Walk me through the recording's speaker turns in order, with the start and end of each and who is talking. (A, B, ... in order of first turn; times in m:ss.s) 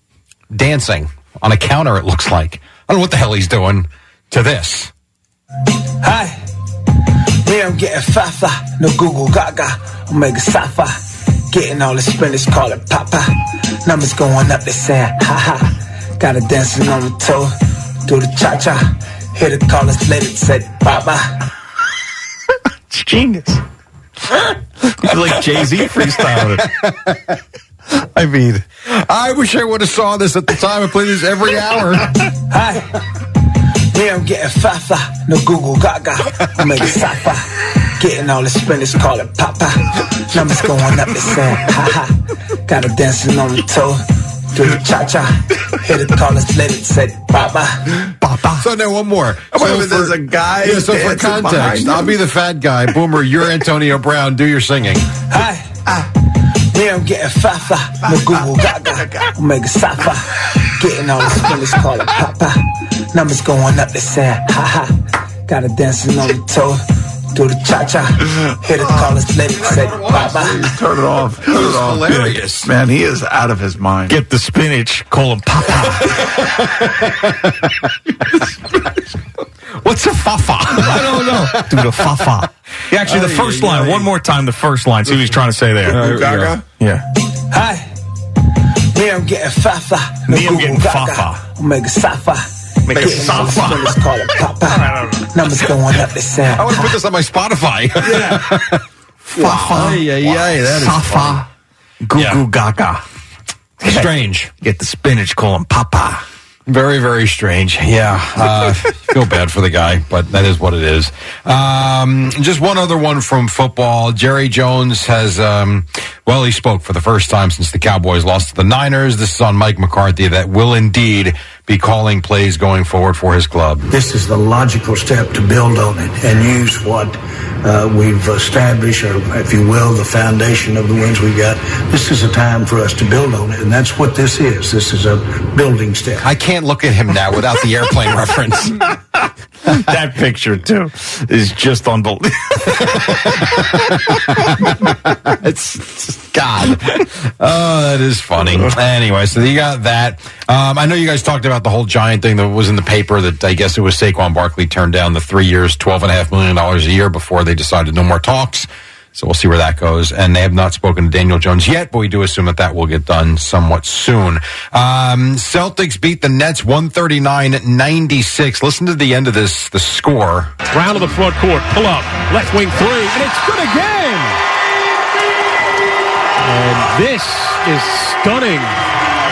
0:00.5-0:04.9 A
0:06.0-0:06.4 B
0:07.4-0:11.0 B
0:11.5-0:17.5 B
0:18.0-0:21.3 B
0:22.9-0:23.6 C
0:24.8-0:26.7 C
0:26.4-0:27.3 A
0:28.2-0:32.2 A
0:32.5-0:32.8 B
0:33.9-0:42.1 B
0:42.7-0:47.8 B
0:48.2-0:48.6 C
0:48.5-0:55.0 A
0:49.5-0:52.1 D
0:55.2-0:56.1 B
0:56.7-1:05.0 B
0:58.1-0:59.3 D
1:05.5-1:06.8 B
1:07.3-1:10.7 B
1:10.0-1:14.2 D
1:11.4-1:12.7 A
1:14.1-1:16.2 C
1:16.2-1:16.9 A
1:19.8-1:22.1 A
1:20.7-1:26.0 C
1:23.4-1:24.0 D
1:25.9-1:26.6 D
1:25.9-1:26.5 A
1:26.8-1:27.0 C
1:27.4-1:27.9 B
1:28.9-1:37.0 B
1:30.3-1:31.4 C
1:32.9-1:34.0 C
1:34.7-1:35.1 C
1:36.5-1:38.8 A
1:39.3-1:41.4 C
1:39.4-1:41.4 A
1:42.0-1:43.0 C
1:43.8-1:44.1 C
1:43.8-1:44.5 A
1:44.6-1:46.2 C
1:46.7-2:03.8 A
2:03.9-2:16.3 E
2:16.2-2:18.8 A
2:19.6-2:23.0 C
2:25.3-2:50.5 A
2:50.7-2:54.4 F
2:56.4-2:58.8 F